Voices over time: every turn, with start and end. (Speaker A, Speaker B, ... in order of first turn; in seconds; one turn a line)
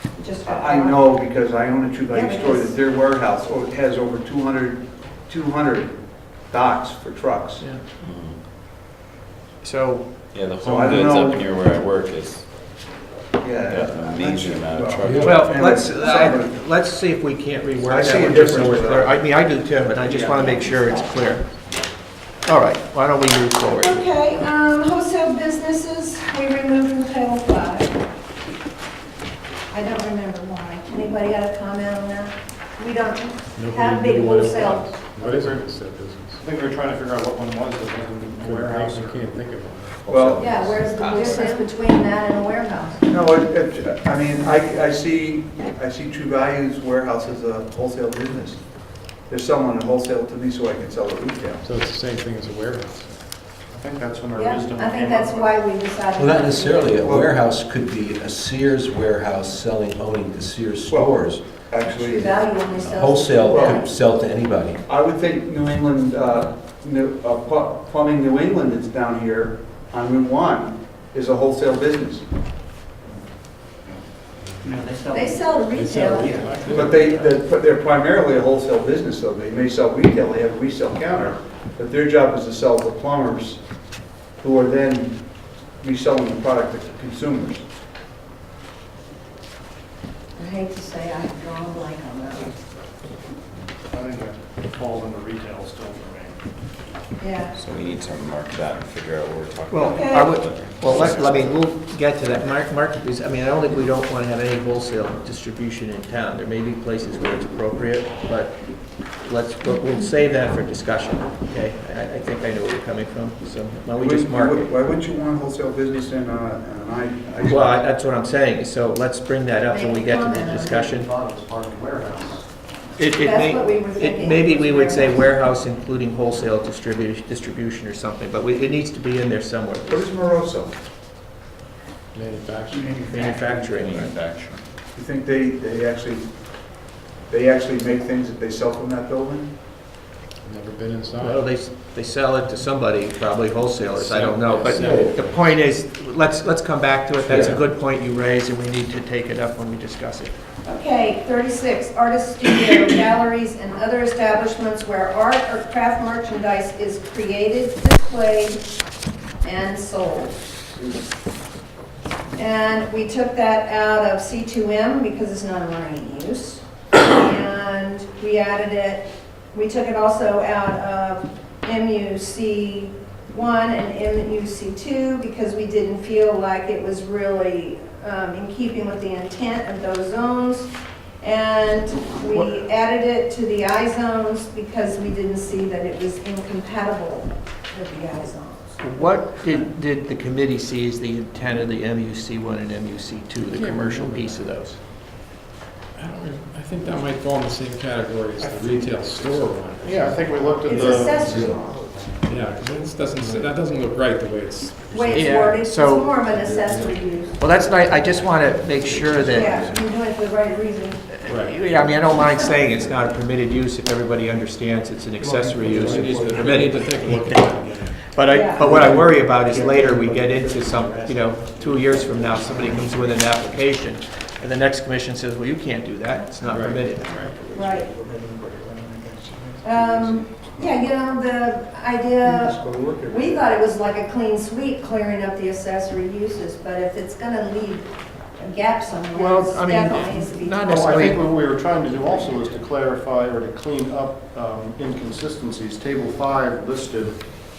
Speaker A: 0.2-1.1
Speaker B: 0.5-5.9
Speaker A: 2.1-2.7
Speaker B: 6.5-7.6
Speaker C: 9.6-10.1
Speaker D: 10.3-12.4
Speaker B: 10.6-11.4
Speaker E: 10.8-12.1
Speaker B: 13.4-16.6
Speaker D: 13.7-15.3
Speaker E: 13.9-15.4
Speaker C: 15.2-21.5
Speaker B: 17.8-19.1
Speaker A: 20.0-21.2
Speaker C: 22.4-24.0
Speaker A: 23.6-28.0
Speaker A: 29.7-35.0
Speaker F: 33.5-36.4
Speaker G: 35.2-39.2
Speaker F: 38.4-40.1
Speaker E: 40.0-41.4
Speaker B: 40.1-40.4
Speaker A: 40.3-43.0
Speaker C: 41.0-41.4
Speaker B: 41.3-41.5
Speaker B: 43.1-48.6
Speaker B: 49.3-51.6
Speaker F: 51.6-53.1
Speaker G: 53.7-55.5
Speaker A: 54.3-57.0
Speaker E: 56.1-61.4
Speaker B: 57.0-57.3
Speaker B: 61.7-62.4
Speaker A: 61.9-63.9
Speaker E: 62.6-64.8
Speaker B: 63.5-63.8
Speaker B: 64.9-72.2
Speaker A: 75.0-76.4
Speaker F: 75.7-77.2
Speaker B: 76.3-83.6
Speaker B: 84.4-87.6
Speaker A: 90.4-92.6
Speaker G: 93.9-96.4
Speaker A: 97.2-97.6
Speaker D: 97.6-101.2
Speaker C: 99.7-108.6
Speaker E: 99.7-100.3
Speaker A: 99.8-100.2
Speaker C: 109.1-114.7
Speaker B: 114.0-117.8
Speaker C: 117.4-121.1
Speaker A: 119.7-120.7
Speaker G: 120.2-122.5
Speaker C: 123.0-130.1
Speaker A: 123.0-125.3
Speaker B: 129.8-130.7
Speaker F: 132.1-133.1
Speaker C: 133.0-134.2
Speaker E: 133.9-134.6
Speaker B: 134.9-136.3
Speaker B: 137.3-139.5
Speaker F: 140.4-141.4
Speaker C: 141.2-150.3
Speaker F: 143.9-145.1
Speaker E: 144.7-145.3
Speaker F: 147.3-147.6
Speaker E: 147.3-147.6
Speaker A: 150.6-158.7
Speaker A: 159.4-160.6
Speaker A: 162.3-189.6
Speaker C: 188.8-194.8
Speaker F: 193.4-194.5
Speaker F: 195.9-200.4
Speaker B: 198.4-198.7
Speaker G: 199.8-201.5
Speaker A: 200.7-201.7
Speaker B: 201.7-202.0
Speaker F: 202.2-205.6
Speaker G: 203.2-203.5
Speaker A: 204.9-207.4
Speaker C: 205.1-206.3
Speaker C: 207.4-209.6
Speaker A: 209.3-211.1
Speaker C: 211.1-227.4
Speaker F: 211.2-211.7
Speaker A: 212.0-212.6
Speaker B: 215.2-216.6
Speaker F: 215.6-218.2
Speaker A: 218.3-218.7
Speaker B: 218.7-223.2
Speaker F: 226.4-227.3
Speaker B: 227.5-230.7
Speaker A: 227.5-227.9
Speaker A: 229.6-240.9
Speaker B: 232.2-233.5
Speaker C: 239.1-241.3
Speaker G: 240.6-247.2